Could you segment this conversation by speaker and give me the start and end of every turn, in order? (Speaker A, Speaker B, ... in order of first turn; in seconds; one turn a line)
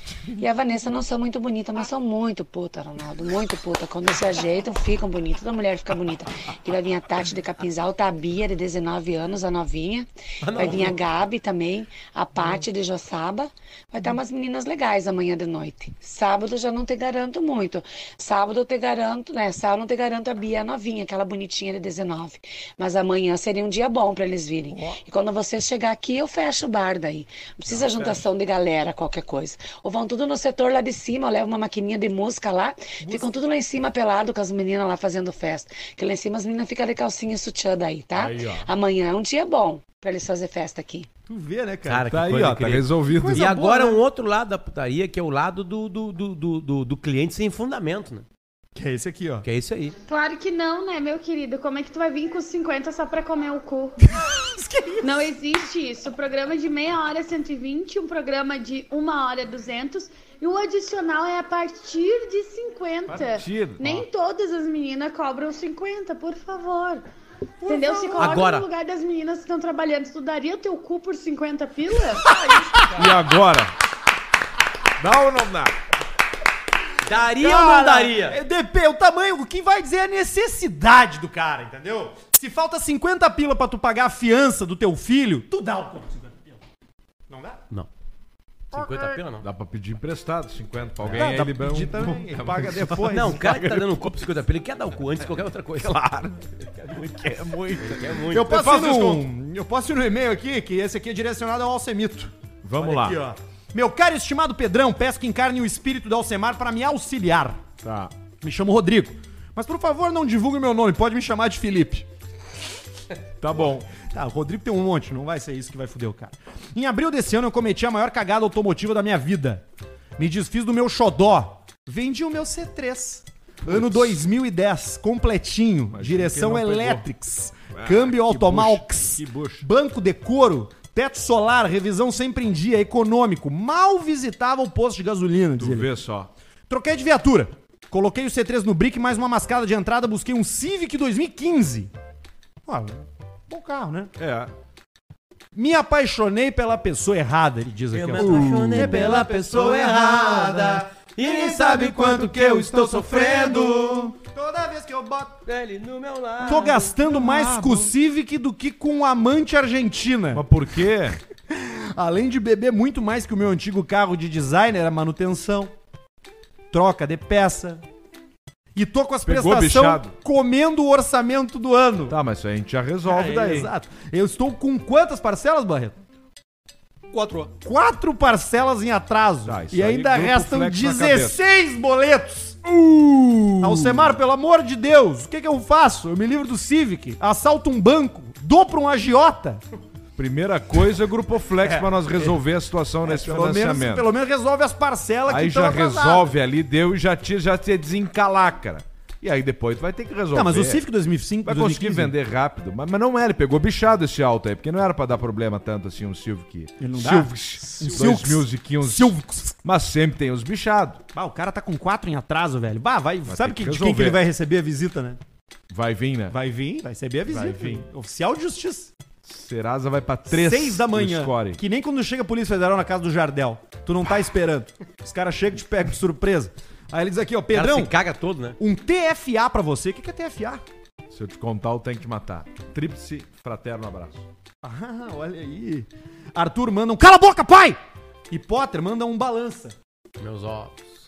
Speaker A: 0.4-41.1
Speaker B: 10.4-11.0
Speaker C: 24.7-25.0
Speaker D: 27.7-28.1
Speaker C: 33.0-33.4
Speaker D: 38.1-38.7
Speaker C: 41.3-42.1
Speaker B: 41.9-48.3
Speaker D: 42.1-43.5
Speaker C: 43.1-44.0
Speaker C: 48.8-49.5
Speaker B: 49.4-50.0
Speaker E: 50.1-54.0
Speaker C: 54.0-55.3
Speaker E: 55.0-67.0
Speaker D: 63.3-64.0
Speaker E: 67.6-72.4
Speaker C: 67.7-68.4
Speaker B: 68.2-68.7
Speaker C: 72.8-73.1
Speaker D: 72.9-73.7
Speaker D: 75.0-75.7
Speaker B: 77.0-78.4
Speaker C: 77.2-86.5
Speaker C: 87.3-87.6
Speaker B: 88.7-89.5
Speaker D: 89.4-94.1
Speaker C: 91.1-93.6
Speaker B: 93.1-96.0
Speaker D: 95.8-99.2
Speaker B: 97.8-98.5
Speaker C: 98.3-107.6
Speaker D: 102.6-103.2
Speaker D: 107.8-108.1
Speaker C: 108.4-112.1
Speaker D: 113.4-113.9
Speaker C: 113.9-119.6
Speaker C: 120.2-135.9
Speaker D: 123.7-124.2
Speaker D: 125.9-127.1
Speaker D: 127.8-129.7
Speaker D: 135.6-136.3
Speaker C: 136.7-141.9
Speaker C: 142.7-144.1
Speaker D: 144.2-144.5
Speaker C: 145.5-155.4
Speaker B: 147.9-154.1
Speaker D: 148.2-148.5
Speaker B: 155.5-157.0
Speaker C: 156.4-160.5
Speaker D: 157.0-157.9
Speaker D: 160.3-161.2
Speaker C: 161.5-165.7
Speaker C: 166.7-167.8
Speaker C: 168.8-172.2
Speaker D: 169.2-170.1
Speaker D: 172.1-173.7
Speaker C: 173.1-176.0
Speaker C: 177.1-189.6
Speaker D: 179.4-181.4
Speaker D: 190.2-194.1
Speaker C: 191.6-192.4
Speaker C: 193.0-196.3
Speaker D: 195.3-200.8
Speaker C: 200.3-202.1
Speaker D: 201.4-211.0
Speaker C: 206.8-209.6
Speaker C: 211.1-215.2
Speaker D: 213.3-214.2
Speaker D: 215.7-216.4
Speaker C: 216.3-218.9
Speaker D: 217.3-217.9
Speaker D: 219.2-221.6
Speaker C: 220.3-227.9
Speaker B: 227.5-228.6
Speaker C: 228.6-230.6
Speaker D: 231.1-234.2
Speaker C: 234.6-237.8
Speaker C: 238.3-239.8
Speaker B: 240.2-240.9